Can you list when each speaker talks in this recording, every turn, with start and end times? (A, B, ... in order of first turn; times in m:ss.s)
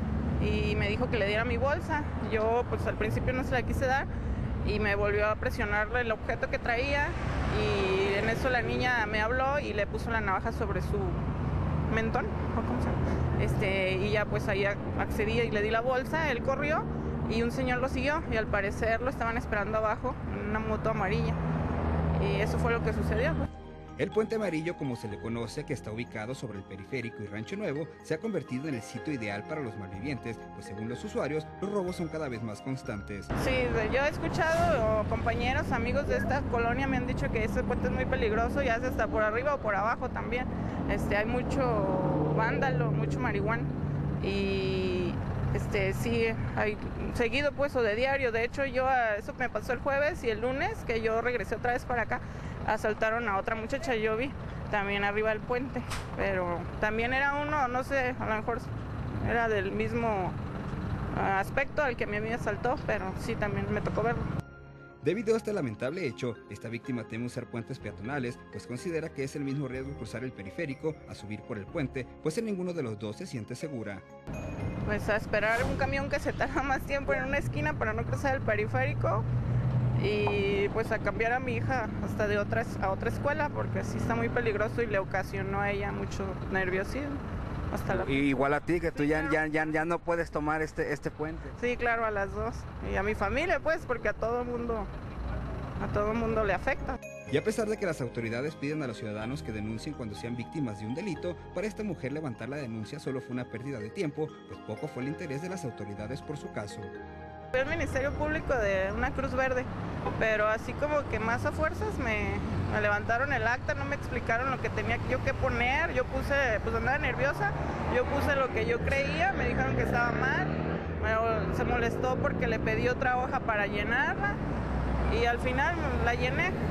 0:00.4-0:04.1 A
0:04.6-0:11.3 A
0:11.9-0:21.4 A
0:22.1-0:23.5 A
0:24.0-0:33.3 B
0:33.4-1:00.4 A
1:01.1-1:04.2 A
1:05.0-1:14.0 B
1:14.8-1:19.2 A
1:20.0-1:28.3 A
1:28.0-1:30.4 B
1:28.2-1:31.5 C
1:28.9-1:29.4 A
1:31.5-1:34.9 A
1:35.8-1:37.0 A
1:37.3-1:46.9 B
1:47.5-2:04.4 A
2:05.1-2:06.5 A